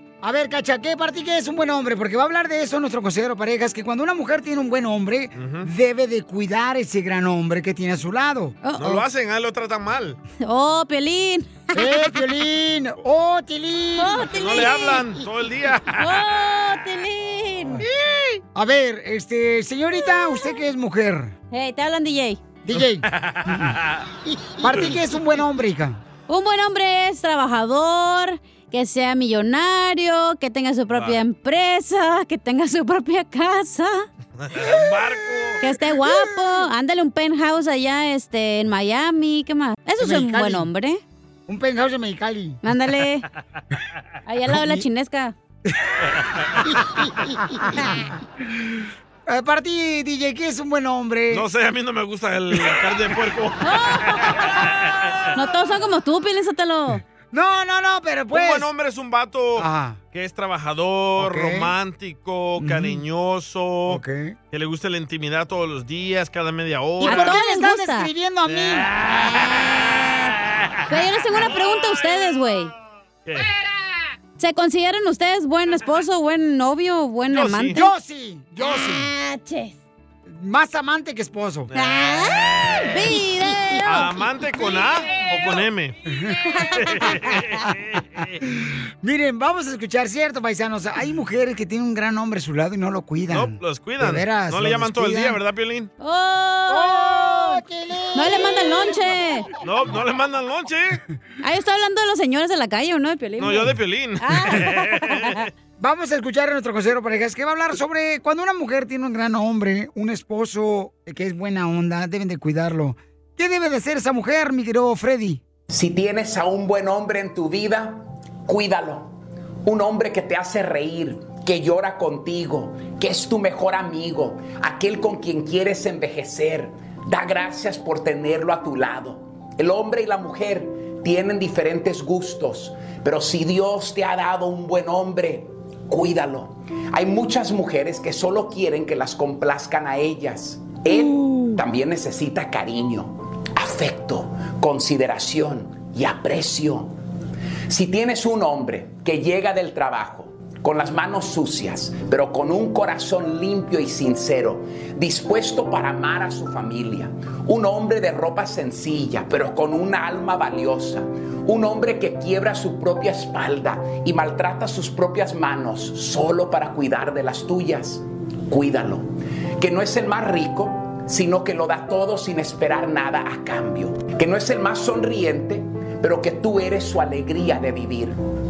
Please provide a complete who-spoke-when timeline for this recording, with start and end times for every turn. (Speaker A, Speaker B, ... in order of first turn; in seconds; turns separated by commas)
Speaker A: 0.2-8.6, Speaker B: 5.3-5.7, Speaker C: 8.6-9.0, Speaker B: 8.8-10.2, Speaker C: 10.4-11.8, Speaker A: 11.7-14.7, Speaker C: 14.0-15.1, Speaker B: 14.3-16.2, Speaker C: 16.0-17.9, Speaker A: 18.5-21.3, Speaker C: 21.5-22.4, Speaker A: 22.6-23.7, Speaker B: 23.1-24.0, Speaker A: 24.5-26.0, Speaker C: 26.3-34.0, Speaker B: 30.9-31.2, Speaker B: 34.4-35.6, Speaker C: 35.6-41.0, Speaker A: 40.0-40.7, Speaker A: 41.5-42.6, Speaker C: 42.6-43.2, Speaker C: 44.2-45.3, Speaker A: 44.5-44.8, Speaker A: 46.6-48.1, Speaker A: 49.3-51.5, Speaker B: 51.3-53.7, Speaker C: 53.6-54.5, Speaker C: 55.3-57.0, Speaker A: 57.3-58.7, Speaker B: 58.3-67.4, Speaker A: 59.6-60.0, Speaker A: 61.2-61.7, Speaker A: 62.6-63.0, Speaker A: 63.9-64.3, Speaker A: 67.0-68.9, Speaker C: 67.0-68.1, Speaker B: 68.5-69.4, Speaker C: 70.9-72.7, Speaker C: 74.4-77.8, Speaker B: 77.3-77.8, Speaker A: 77.7-79.1, Speaker C: 78.6-79.8, Speaker A: 80.2-81.7, Speaker C: 81.7-84.1, Speaker B: 82.3-82.8, Speaker B: 83.8-85.9, Speaker A: 86.1-86.6, Speaker B: 86.8-87.7, Speaker A: 88.4-95.4, Speaker B: 93.3-95.9, Speaker C: 96.0-97.6, Speaker A: 96.7-99.2, Speaker C: 98.1-99.5, Speaker B: 99.6-101.0, Speaker C: 101.4-105.4, Speaker B: 103.4-105.4, Speaker A: 105.8-115.4, Speaker D: 115.7-119.1, Speaker D: 119.6-146.9, Speaker A: 140.9-141.5, Speaker D: 147.7-178.2